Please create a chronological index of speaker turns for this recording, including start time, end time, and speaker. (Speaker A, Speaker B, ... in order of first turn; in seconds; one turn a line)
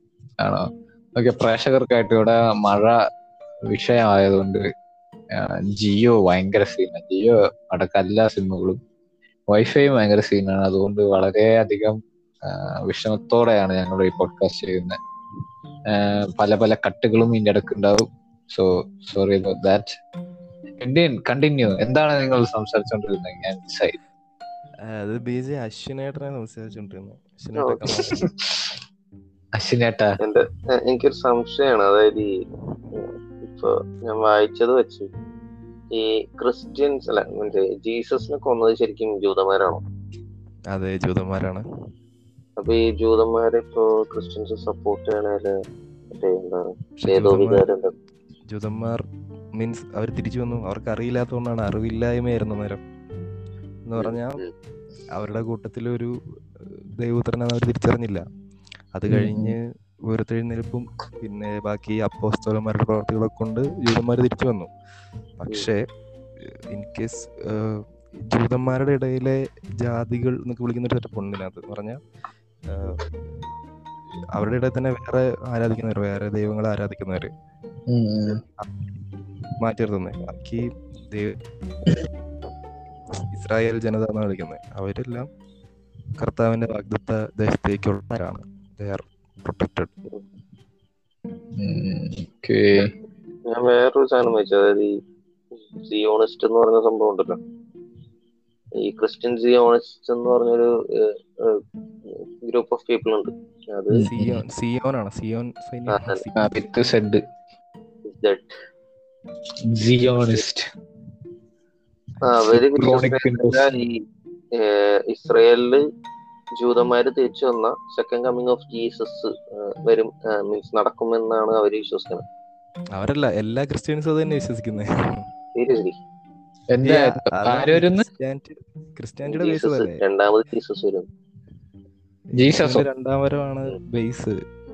Speaker A: 0.4-3.0
Speaker A: 3.7-4.6
Speaker A: 5.3-8.8
Speaker A: 9.5-15.0
Speaker A: 15.9-20.0
Speaker A: 20.8-23.9
Speaker B: 24.9-28.2
Speaker C: 27.6-27.8
Speaker A: 28.0-28.7
Speaker A: 29.5-30.1
Speaker C: 30.2-32.3
Speaker C: 32.9-35.1
Speaker C: 35.9-39.8
Speaker B: 40.7-41.6
Speaker C: 42.6-45.5
Speaker C: 46.1-47.9
Speaker B: 47.0-47.7
Speaker B: 48.5-49.0
Speaker B: 49.6-52.8
Speaker B: 53.9-54.4
Speaker C: 54.0-54.5
Speaker B: 55.1-58.2
Speaker B: 58.9-64.7
Speaker A: 59.1-59.5
Speaker B: 65.4-65.8
Speaker B: 66.7-72.0
Speaker B: 72.7-73.0
Speaker B: 74.3-77.3
Speaker A: 77.9-78.4
Speaker B: 79.6-81.3
Speaker B: 83.3-85.3
Speaker B: 86.2-90.0
Speaker A: 91.5-92.9
Speaker C: 93.5-95.0
Speaker C: 95.5-97.4
Speaker C: 98.8-104.0
Speaker A: 103.9-104.4
Speaker B: 104.0-106.4
Speaker C: 105.9-106.2
Speaker A: 106.3-107.2
Speaker C: 108.0-108.5
Speaker A: 109.7-110.7
Speaker C: 112.2-114.0
Speaker A: 112.4-113.7
Speaker C: 114.5-115.8
Speaker C: 116.6-122.2
Speaker B: 122.9-125.2
Speaker C: 125.5-126.0
Speaker A: 126.7-128.1
Speaker B: 126.8-130.0
Speaker C: 129.2-131.1
Speaker B: 132.3-134.4
Speaker A: 132.3-132.8